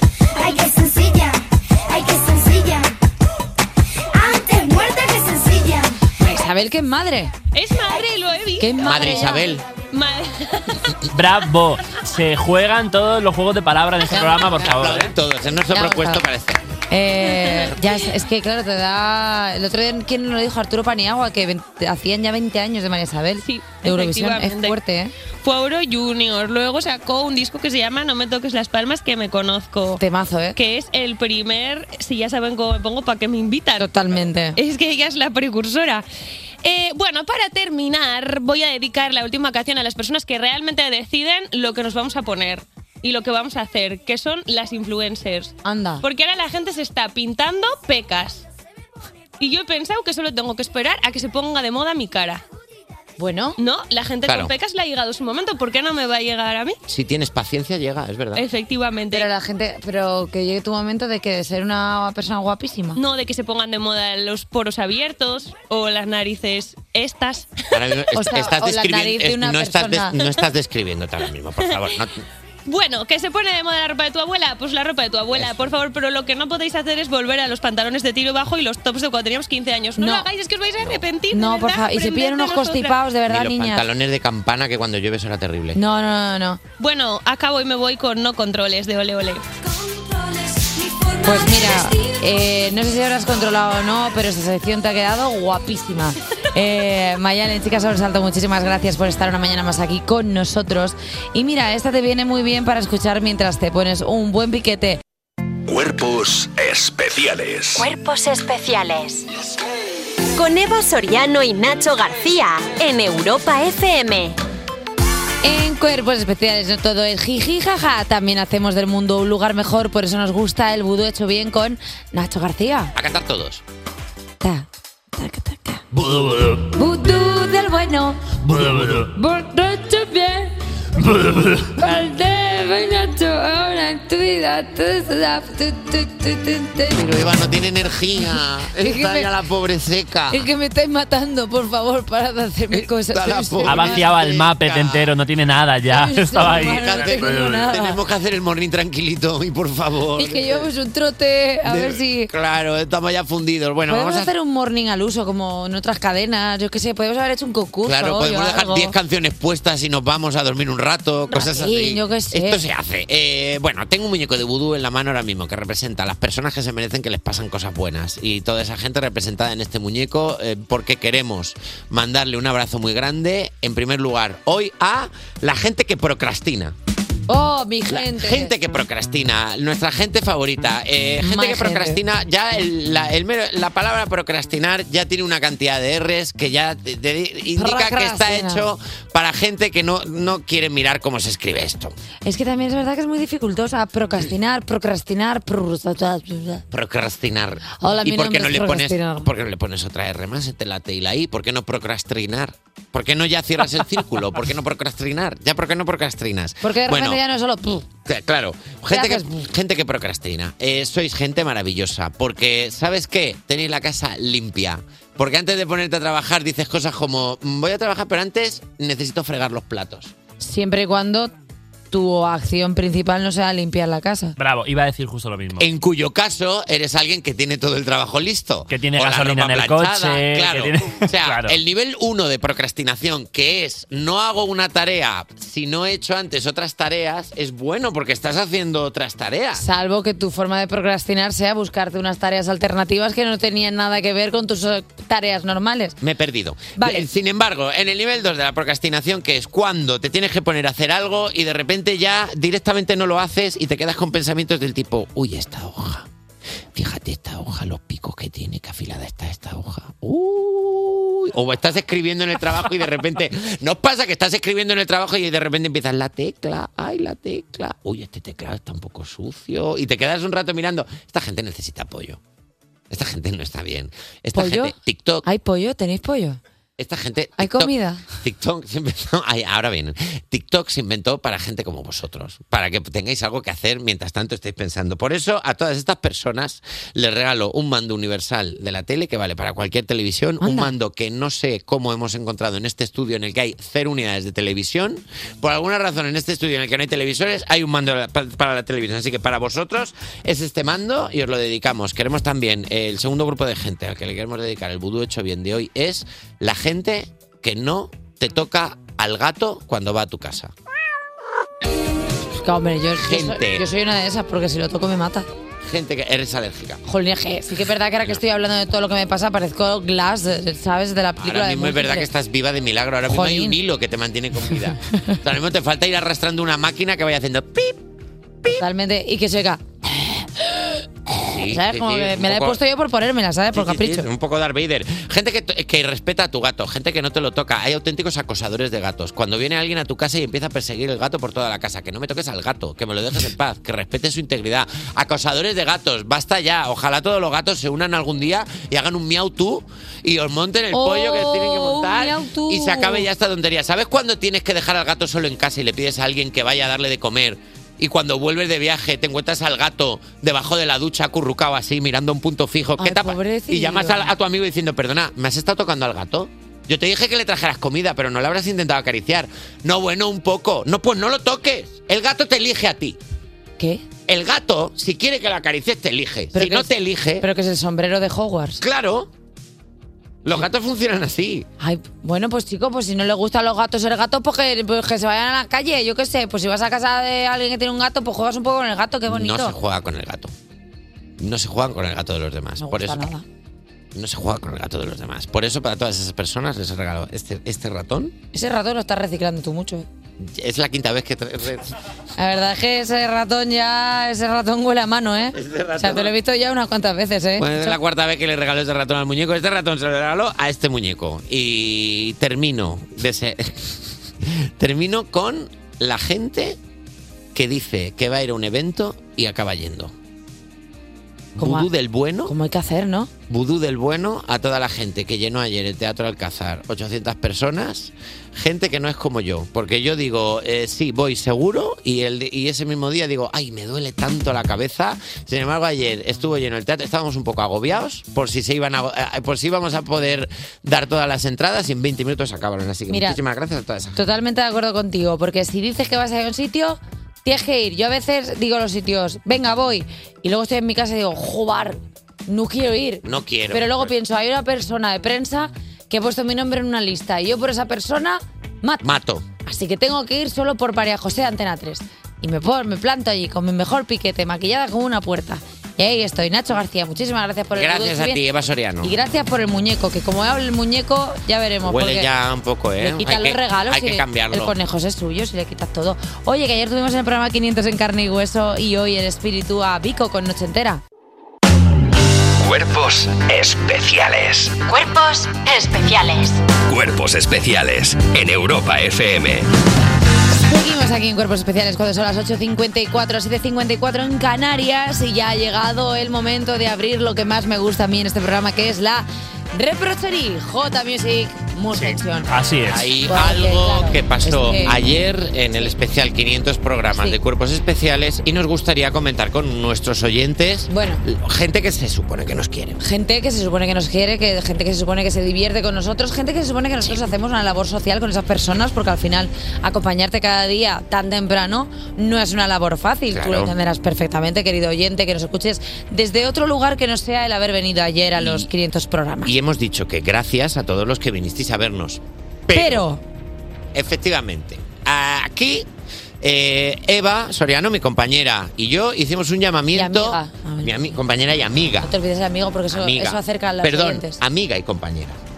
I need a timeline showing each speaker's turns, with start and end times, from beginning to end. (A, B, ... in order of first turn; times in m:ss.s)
0:00.8-0:01.1 A
0:02.0-0:02.8 A
0:04.4-0:05.8 A
0:06.2-0:07.3 B
0:07.5-0:10.8 C
0:08.6-0:09.6 B
0:08.8-0:09.6 D
0:11.1-0:15.1 E
0:14.1-0:16.8 D
0:15.7-0:16.2 B
0:16.9-0:25.1 B
0:17.3-0:17.8 C
0:23.4-0:24.8 C
0:25.4-0:30.0 C
0:30.0-0:30.6 B
0:30.6-0:33.9 C
0:33.8-0:34.6 B
0:34.6-0:36.0 C
0:36.6-0:48.4 C
0:45.6-0:46.0 B
0:49.4-0:52.4 C
0:53.2-0:53.6 B
0:53.6-0:56.8 C
0:54.2-0:54.5 D
0:56.9-0:58.4 D
0:58.3-0:59.3 C
0:59.1-1:03.0 B
1:02.9-1:07.8 C
1:07.7-1:12.2 D
1:08.1-1:10.2 B
1:11.6-1:12.0 C
1:12.6-1:23.0 C
1:15.3-1:15.7 D
1:20.0-1:20.3 B
1:20.8-1:21.0 D
1:21.3-1:23.8 B
1:23.3-1:25.8 D
1:25.7-1:26.6 B
1:26.8-1:29.5 C
1:31.2-1:45.0 B
1:45.7-1:47.9 F
1:47.7-1:49.2 G
1:50.3-1:54.4 G
1:55.4-2:02.9 B
2:03.0-2:03.6 D
2:04.4-2:04.6 B
2:05.2-2:05.8 B
2:06.0-2:06.3 E
2:06.7-2:08.4 B
2:08.5-2:09.0 E
2:09.0-2:10.5 B
2:11.2-2:11.6 E
2:11.2-2:17.0 B
2:16.9-2:20.4 D
2:18.8-2:19.3 B
2:20.3-2:24.1 B
2:22.7-2:25.1 D
2:23.6-2:27.6 E
2:25.9-2:28.0 B
2:26.4-2:30.7 D
2:30.2-2:32.3 B
2:31.6-2:34.3 D
2:33.9-2:38.9 B
2:37.8-2:56.7 D
2:41.3-2:42.6 B
2:57.3-2:58.5 B
2:57.9-3:11.9 D
3:01.2-3:02.0 B
3:07.6-3:08.7 B
3:12.2-3:16.6 B
3:16.7-3:27.2 D
3:17.8-3:19.3 B
3:26.6-3:27.9 B
3:28.0-3:40.1 D
3:28.9-3:29.4 B
3:40.4-3:41.3 B
3:41.9-3:44.4 B
3:44.4-3:45.7 E
3:45.5-3:59.6 D
3:48.7-3:51.6 E
3:59.6-4:06.0 B
4:06.0-4:16.1 D
4:06.8-4:07.0 B
4:16.7-4:32.2 D
4:32.9-4:35.2 D
4:34.3-4:34.7 B
4:35.2-4:36.4 B
4:36.8-5:10.5 D
4:37.4-4:38.0 B
4:50.4-4:50.7 B
5:12.4-5:15.3 B
5:13.0-5:13.6 D
5:15.6-5:16.8 D
5:16.8-5:22.1 B
5:21.2-5:27.8 D
5:23.1-5:23.6 B
5:28.6-5:29.6 B
5:31.2-5:32.6 D
5:31.2-5:34.1 B
5:33.5-6:13.0 D
5:50.7-5:53.1 B
6:02.8-6:04.1 B
6:13.6-6:13.8 B
6:14.1-6:17.2 D
6:16.3-6:18.6 B
6:18.6-6:19.1 D
6:20.2-6:21.5 D
6:21.6-6:29.6 B
6:29.1-6:30.3 D
6:31.2-6:33.1 D
6:32.6-6:33.2 B
6:33.9-6:38.1 D
6:38.3-6:39.9 B
6:40.2-6:41.7 D
6:42.2-6:47.8 B
6:45.3-6:46.1 D
6:47.4-6:56.6 D
6:57.3-6:59.9 D
7:01.4-7:02.3 D
7:01.4-7:01.7 B
7:02.2-7:03.1 B
7:03.3-7:24.0 D
7:22.9-7:23.2 B
7:23.9-7:38.9 B
7:33.0-7:33.9 D
7:38.8-7:39.2 D
7:39.4-7:48.2 B
7:47.5-7:48.9 D
7:48.8-7:52.1 B
7:51.6-7:54.5 D
7:52.8-8:00.8 B
8:02.4-8:04.7 H
8:04.9-8:06.3 G
8:06.7-8:09.5 H
8:10.3-8:22.3 B
8:21.7-8:22.9 E
8:22.7-8:32.8 D
8:23.1-8:24.8 B
8:26.9-8:27.2 B
8:30.7-8:31.0 B
8:32.8-8:49.3 B
8:43.1-8:43.5 D
8:48.2-8:48.5 D
8:49.2-8:52.8 D
8:52.5-8:53.0 B
8:53.7-8:55.7 D
8:56.2-9:01.9 D
8:59.7-9:01.0 B
9:01.8-9:04.2 B
9:02.7-9:05.2 D